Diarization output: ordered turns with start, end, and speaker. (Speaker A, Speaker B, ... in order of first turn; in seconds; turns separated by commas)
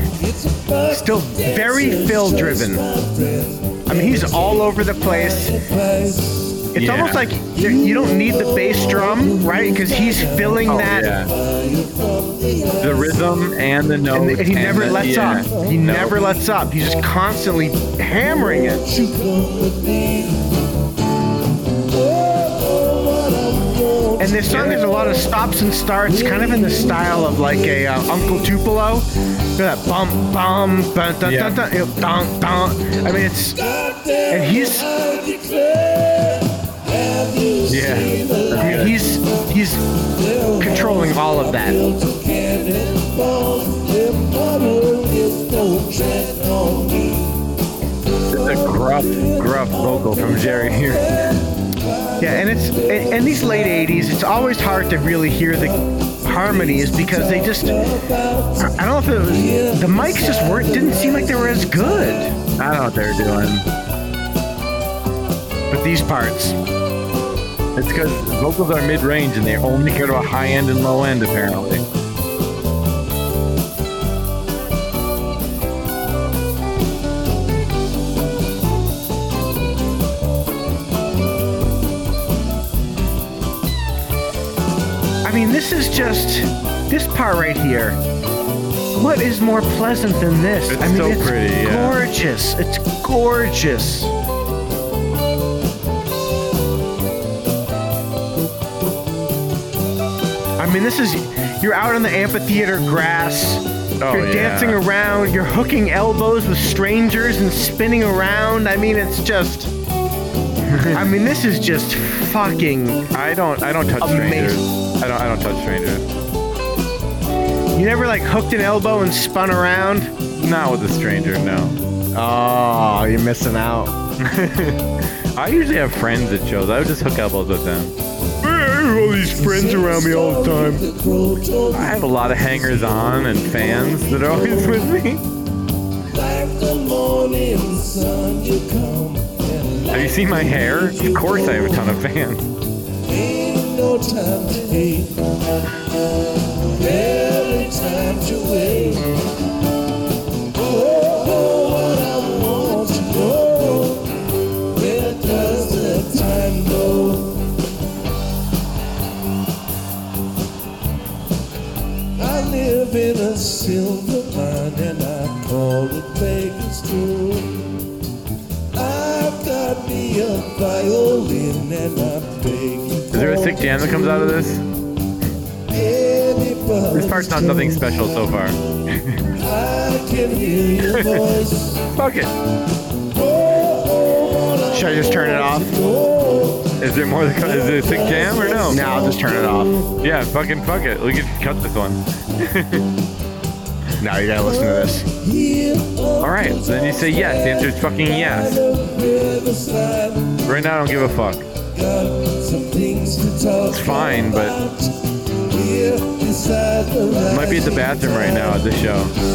Speaker A: 0.2-6.7, Speaker B: 0.9-2.8, Speaker B: 3.9-5.6, Speaker B: 6.7-11.1, Speaker C: 6.8-7.2, Speaker A: 7.6-13.2, Speaker C: 10.7-11.3, Speaker C: 12.8-16.2, Speaker B: 14.1-18.8, Speaker A: 18.5-20.5, Speaker A: 21.9-24.6, Speaker B: 24.2-33.6, Speaker C: 24.5-24.8, Speaker A: 26.2-27.5, Speaker C: 31.2-31.6, Speaker A: 33.6-38.9, Speaker B: 34.3-34.9, Speaker C: 37.7-39.0, Speaker B: 38.5-39.9, Speaker A: 40.1-47.5, Speaker B: 40.6-41.8, Speaker C: 48.3-51.2, Speaker A: 48.4-52.3, Speaker B: 52.2-57.8, Speaker A: 56.3-58.7, Speaker B: 58.6-62.3, Speaker A: 59.3-61.2, Speaker C: 62.6-63.7, Speaker B: 65.7-66.6, Speaker C: 67.8-71.9, Speaker B: 85.2-88.0, Speaker B: 89.0-94.1, Speaker C: 90.7-92.0, Speaker B: 100.6-109.7, Speaker C: 104.0-104.8, Speaker C: 110.7-111.0, Speaker B: 110.9-113.1, Speaker C: 113.1-116.1, Speaker B: 114.0-114.6, Speaker B: 117.8-120.1, Speaker C: 120.4-121.8, Speaker B: 122.1-123.9, Speaker C: 124.2-127.9, Speaker B: 128.4-130.8, Speaker A: 129.3-132.6, Speaker C: 131.7-135.2, Speaker A: 133.3-134.8, Speaker A: 136.1-140.9, Speaker C: 139.9-142.5, Speaker A: 143.1-145.3, Speaker A: 146.7-149.2, Speaker A: 150.5-157.5, Speaker A: 162.2-167.8, Speaker A: 168.7-174.3, Speaker C: 173.1-174.6, Speaker A: 175.7-177.9, Speaker C: 176.9-179.3, Speaker A: 179.3-181.8, Speaker C: 180.9-181.2, Speaker C: 181.9-182.3, Speaker A: 183.1-186.8, Speaker B: 184.7-185.8, Speaker C: 186.8-188.8, Speaker A: 187.4-189.8, Speaker B: 188.7-189.8, Speaker C: 190.0-192.8, Speaker B: 194.0-195.1, Speaker A: 195.2-200.4, Speaker C: 196.2-198.6, Speaker C: 200.5-201.5, Speaker A: 201.7-204.9, Speaker C: 203.7-204.6, Speaker A: 205.4-208.6, Speaker C: 207.3-209.1